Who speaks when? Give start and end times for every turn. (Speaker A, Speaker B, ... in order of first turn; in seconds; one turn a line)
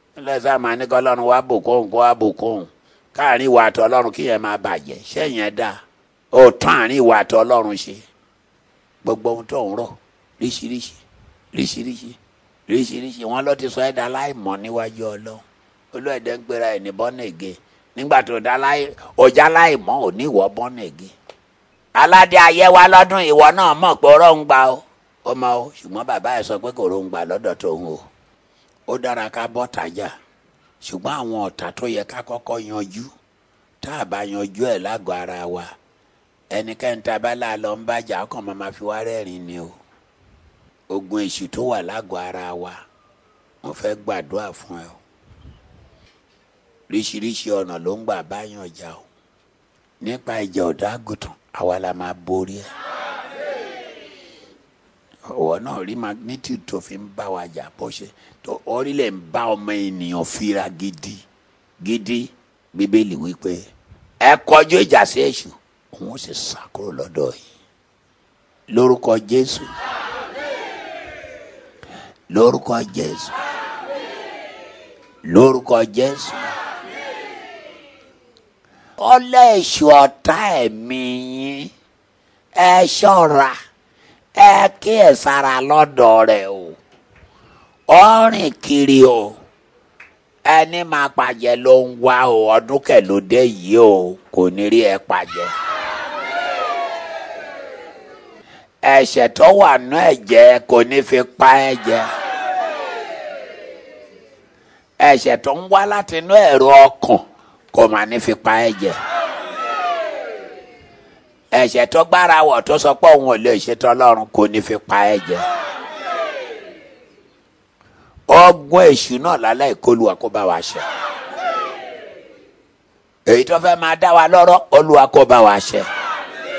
Speaker A: 0.2-5.8
Speaker A: 6.3-8.0
Speaker A: 9.0-11.0
Speaker A: 11.5-12.2
Speaker A: 12.7-21.1
Speaker A: 21.9-28.1
Speaker A: 28.9-30.1
Speaker A: 30.8-33.1
Speaker A: 33.8-35.7
Speaker A: 36.5-39.8
Speaker A: 40.9-42.8
Speaker A: 43.6-45.0
Speaker A: 46.9-49.0
Speaker A: 50.0-52.7
Speaker A: 55.3-61.2
Speaker A: 61.8-63.7
Speaker A: 64.2-67.4
Speaker A: 68.7-69.7
Speaker A: 72.3-73.4
Speaker A: 75.2-76.5
Speaker A: 79.0-81.7
Speaker A: 82.5-83.5
Speaker A: 84.4-86.8
Speaker A: 87.9-89.4
Speaker A: 90.5-95.5
Speaker A: 98.8-102.1
Speaker A: 105.0-109.0
Speaker A: 111.5-115.5
Speaker A: 118.3-120.8
Speaker A: 123.3-125.9